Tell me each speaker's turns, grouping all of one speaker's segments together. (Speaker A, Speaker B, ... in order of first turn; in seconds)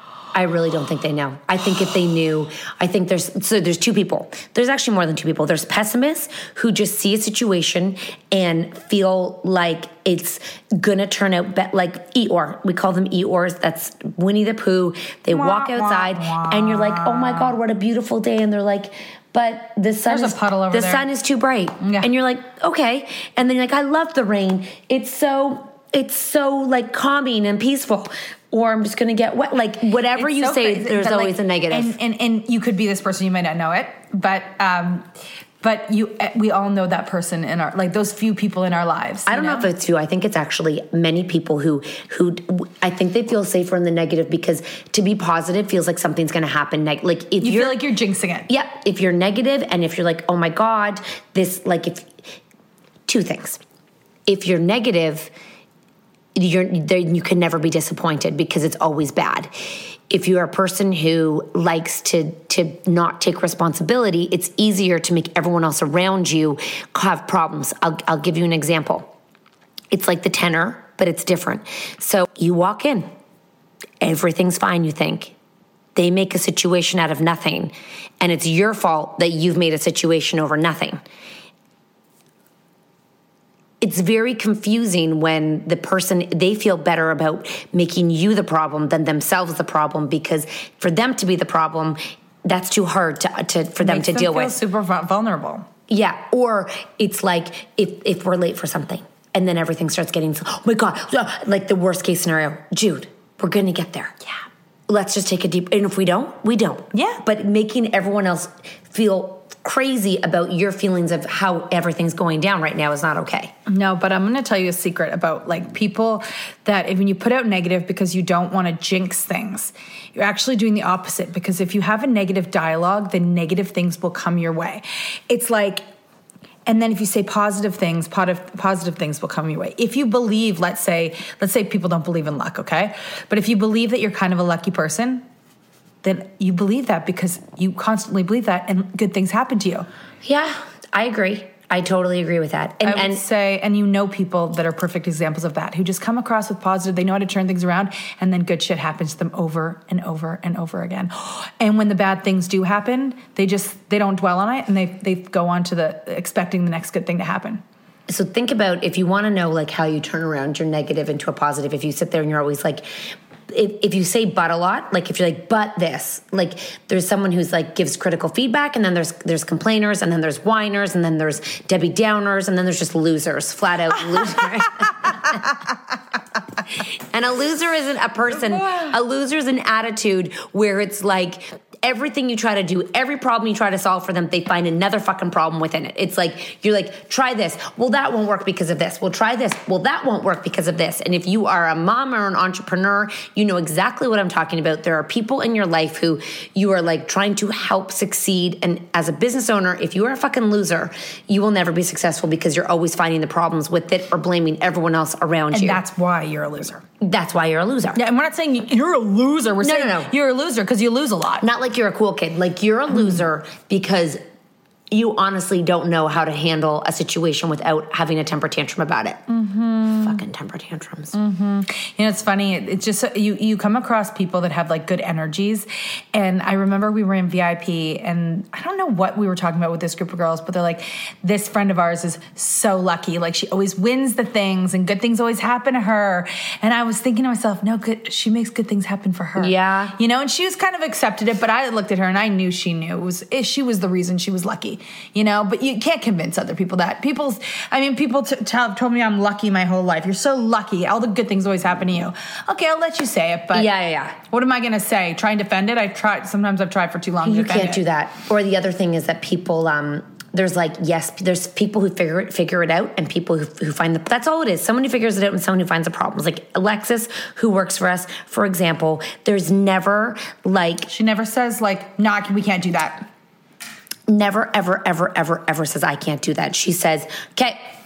Speaker A: 0.3-31.9, 39.3-47.8, 48.5-52.1, 53.1-53.6, 54.3-55.3, 56.3-59.5, 60.1-69.1, 69.9-73.1, 74.0-75.3, 75.9-81.0, 83.8-94.5, 95.9-104.2, 104.9-113.5, 140.2-143.2, 158.1-175.4, 176.8-205.8, 207.0-208.0, 209.6-210.1, 211.4-214.2, 214.9-219.2, 219.9-221.2, 239.4-239.9, 253.5-254.2, 257.2-270.9, 274.1-277.6
Speaker B: 15.3-17.6, 20.1-21.0, 21.8-22.1, 30.1-35.1, 35.6-39.7, 47.4-48.5, 93.8-95.7, 106.9-107.2, 113.7-125.8, 126.7-135.2, 136.0-139.9, 142.8-157.6, 178.4-178.9, 205.5-206.8, 207.9-211.4, 212.9-213.2, 219.3-220.2, 221.1-253.7, 254.2-257.8, 270.9-273.1